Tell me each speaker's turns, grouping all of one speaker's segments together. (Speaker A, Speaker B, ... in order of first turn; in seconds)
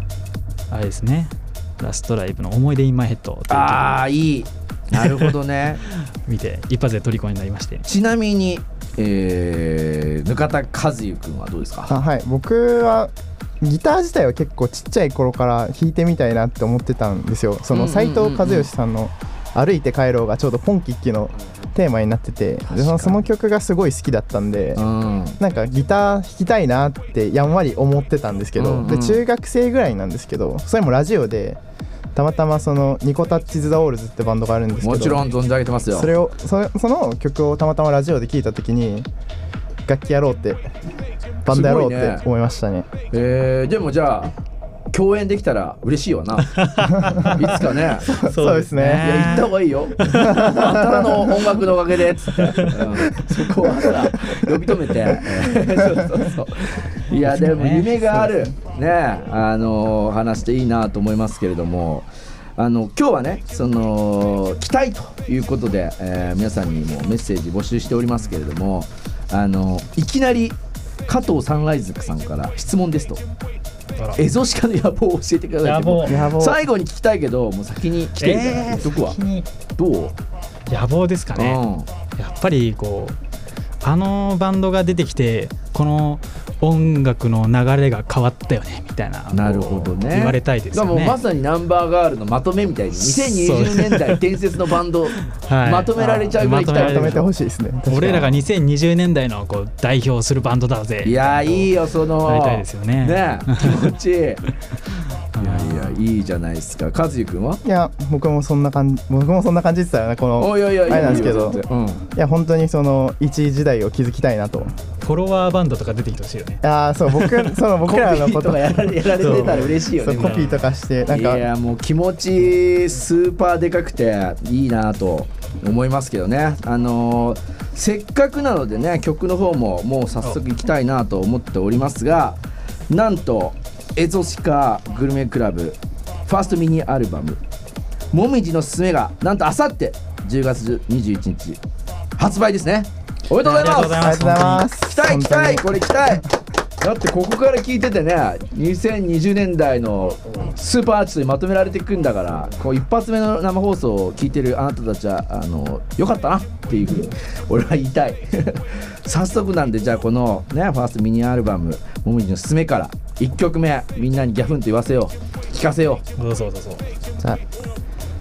Speaker A: 0.7-4.0, 4.9-7.8, 22.7-23.2, 46.5-50.5, 52.4-52.8, 57.1-58.4, 75.6-76.3, 78.2-79.5, 80.7-81.6, 82.2-83.2, 83.8-91.2, 93.0-94.2, 95.1-97.2, 97.8-101.7, 102.2-103.9, 104.9-106.0, 114.8-116.6, 117.1-117.5, 119.2-120.7, 143.3-144.7, 166.2-166.8
Speaker B: 3.5-5.8, 7.8-11.9, 17.7-18.7, 24.8-25.4, 28.6-29.2, 34.8-36.1, 41.5-42.2, 43.1-44.3, 44.9-46.5, 47.3-48.1, 49.0-73.2, 74.2-79.2, 79.8-80.2, 81.3-81.9, 89.3-97.3, 101.0-104.4, 105.4-107.6, 110.4-112.0, 117.8-120.5, 121.1-132.4, 132.9-137.4, 138.1-141.6, 142.2-144.2, 144.8-146.2, 146.8-166.0
Speaker C: 11.9-24.8, 25.4-31.6, 32.1-35.2, 35.9-39.1, 39.9-40.7, 41.4-42.9, 48.0-49.2, 50.2-51.2, 76.0-76.6, 96.7-98.4, 107.6-114.7, 116.6-121.5, 143.9-146.2